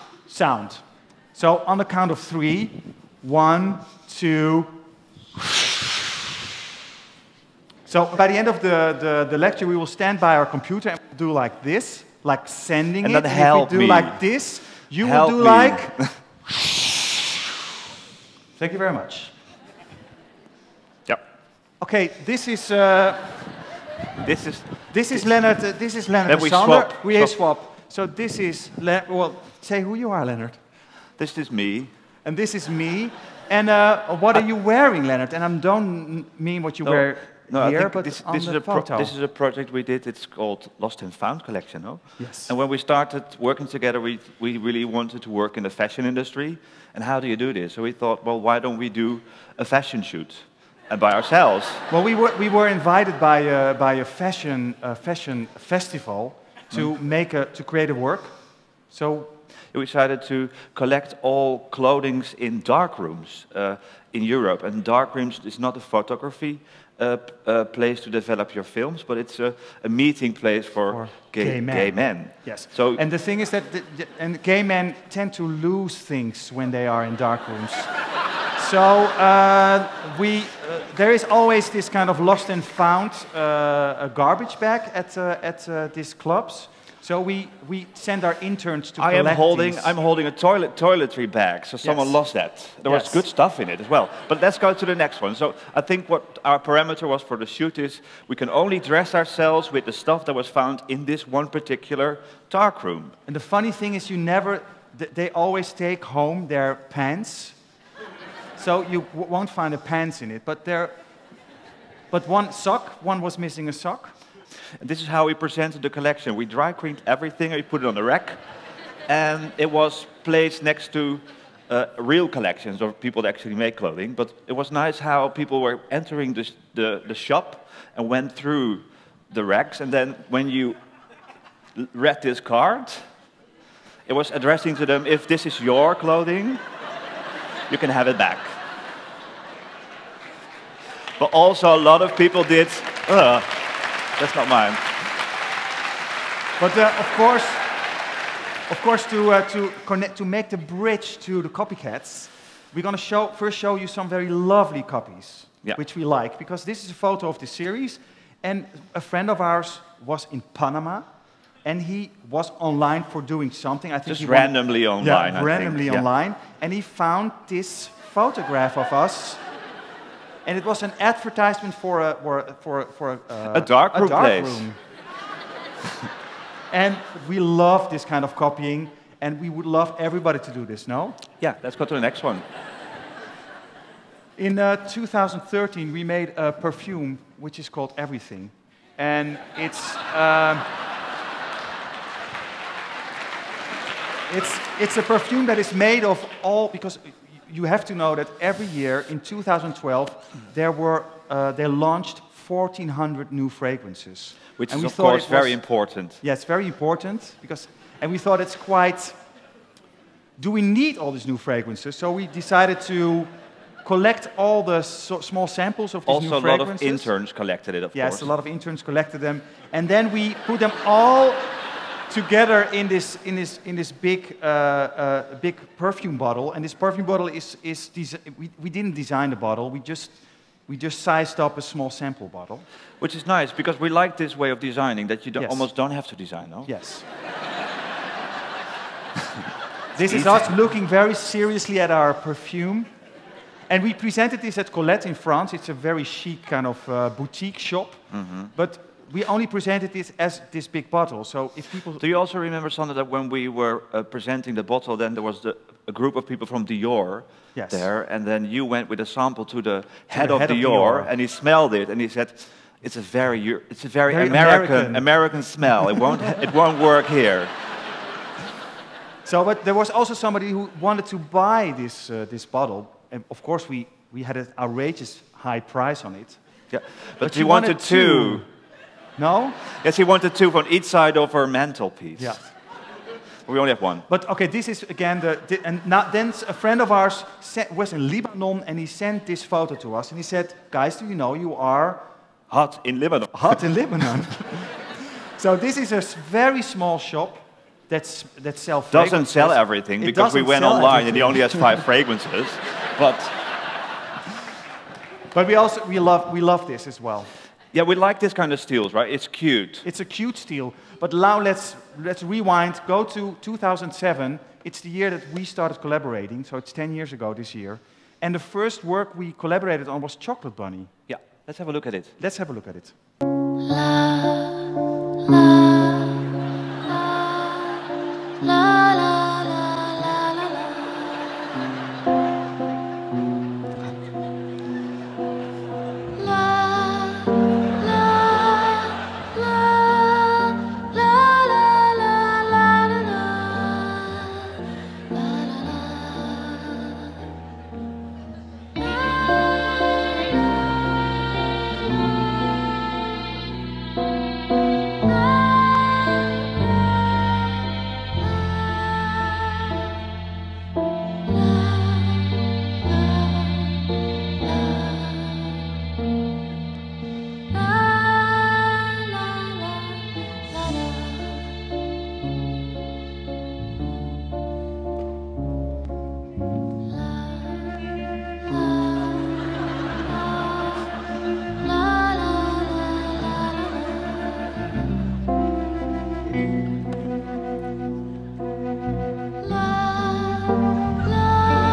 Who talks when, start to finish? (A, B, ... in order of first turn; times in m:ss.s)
0:00.3-0:04.8 A
0:07.9-0:16.0 A
0:13.0-0:16.9 B
0:18.6-0:19.3 A
0:21.8-0:23.5 A
0:24.2-0:25.2 B
0:24.9-0:30.6 A
0:26.2-0:27.3 B
0:31.2-0:31.9 B
0:32.2-0:39.1 A
0:36.8-0:51.8 B
0:42.2-0:42.5 A
0:51.9-0:59.3 A
0:59.7-1:13.0 B
1:10.9-1:17.9 A
1:18.5-1:29.9 A
1:29.0-1:43.2 B
1:31.8-1:32.2 A
1:32.8-1:33.2 A
1:43.3-1:47.6 A
1:48.6-1:50.9 A
1:52.1-1:54.2 A
1:54.8-1:58.4 B
1:59.1-2:10.8 B
2:11.7-2:13.1 B
2:14.0-2:16.6 B
2:17.7-2:18.6 B
2:21.2-2:24.9 B
2:26.6-2:27.7 A
2:28.7-2:41.1 A
2:41.6-2:49.4 A
2:44.0-2:46.0 B
2:50.4-2:54.8 A
2:53.5-2:54.7 B
2:56.7-3:01.2 A
3:01.4-3:02.4 B
3:04.4-3:10.7 A
3:14.3-3:29.2 A
3:24.6-3:26.2 B
3:30.4-3:33.3 A
3:33.8-3:37.1 A
3:36.1-3:38.3 B
3:37.9-3:41.6 A
3:42.1-3:52.6 A
3:53.0-3:56.7 B
3:55.4-3:55.7 A
3:56.6-3:57.0 A
3:59.9-4:02.9 A
4:00.0-4:00.5 B
4:03.7-4:12.0 A
4:08.1-4:08.5 B
4:12.0-4:27.5 B
4:17.5-4:17.9 A
4:20.1-4:21.1 A
4:24.1-4:25.1 A
4:29.2-4:36.4 A
4:36.7-4:38.4 B
4:37.2-4:38.4 A
4:39.2-4:39.6 A
4:39.6-4:42.5 B
4:42.2-4:42.5 A
4:43.5-4:44.0 B
4:44.1-4:52.0 A
4:52.5-4:53.6 B
4:53.3-5:01.8 A
4:58.9-5:03.3 B
5:05.3-5:07.3 A
5:07.7-5:09.8 B
5:09.8-5:20.9 A
5:21.1-5:22.1 B
5:22.2-5:22.9 A